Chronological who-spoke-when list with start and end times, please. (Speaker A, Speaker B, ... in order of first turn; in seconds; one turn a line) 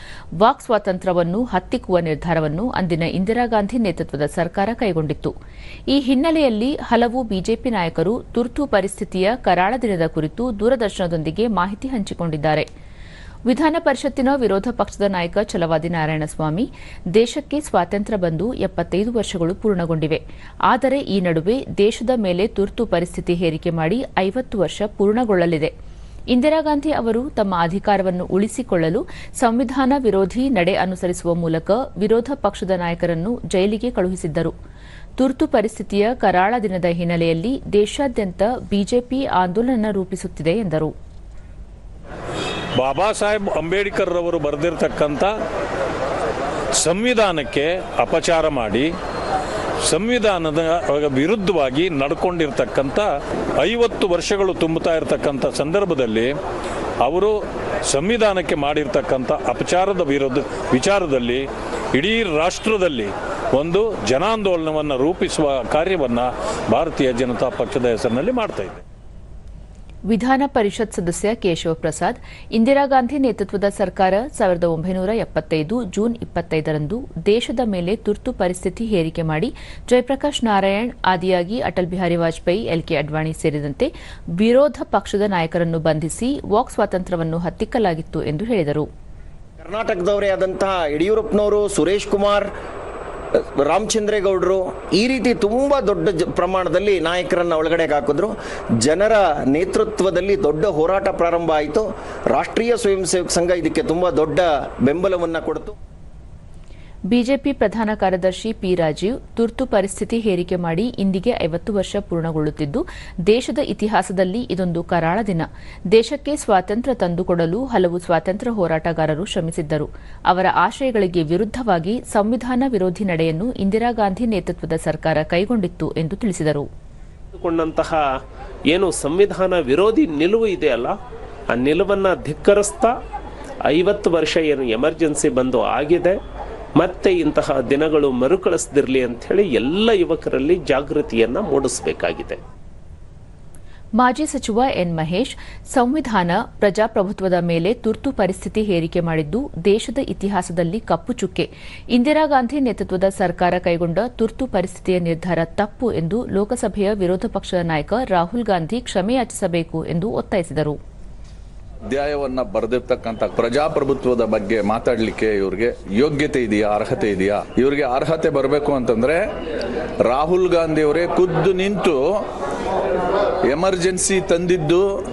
Speaker A: 0.4-5.3
Speaker A: 5.9-12.7
Speaker A: 13.5-25.7
Speaker A: 26.3-34.5
Speaker A: 35.2-40.9
Speaker B: 42.8-45.3
Speaker B: 46.8-48.9
Speaker B: 49.9-56.3
Speaker B: 57.0-57.3
Speaker B: 57.9-68.8
Speaker A: 70.1-88.9
Speaker C: 89.6-92.5
Speaker C: 93.6-105.8
Speaker A: 107.1-126.7
Speaker D: 127.3-128.0
Speaker D: 128.7-130.9
Speaker D: 131.5-132.9
Speaker D: 133.7-136.2
Speaker D: 136.8-142.4
Speaker A: 144.0-160.8
Speaker E: 161.9-169.2
Speaker E: 170.1-172.0
Speaker E: 173.5-174.8